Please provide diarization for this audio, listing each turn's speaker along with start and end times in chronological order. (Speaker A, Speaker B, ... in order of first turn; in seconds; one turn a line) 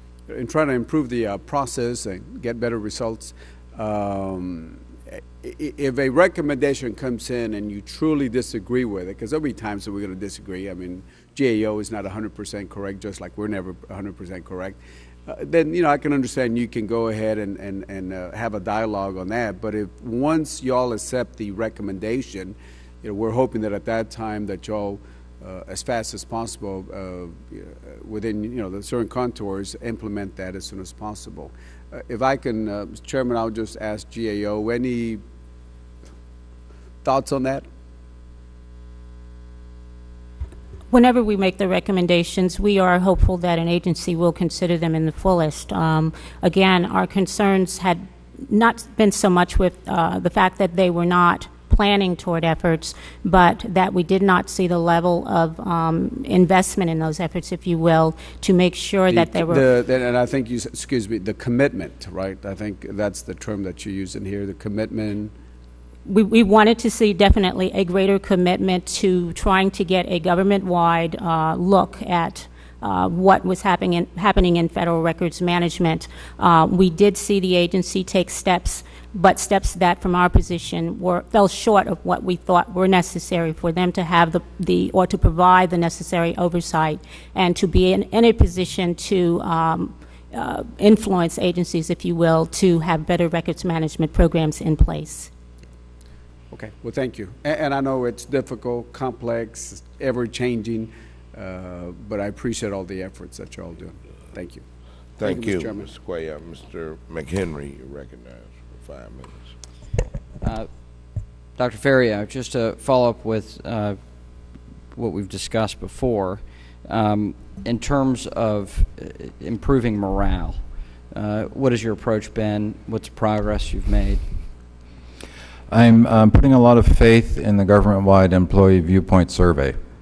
Speaker A: 0.3-35.2
Speaker A: 37.0-37.6
Speaker B: 40.9-59.7
Speaker A: 59.1-65.3
Speaker B: 66.0-95.3
Speaker A: 96.5-104.6
Speaker C: 105.2-109.5
Speaker A: 105.2-105.9
Speaker D: 110.4-110.7
Speaker D: 111.5-114.0
Speaker D: 114.9-120.6
Speaker D: 121.1-124.2
Speaker E: 125.7-129.8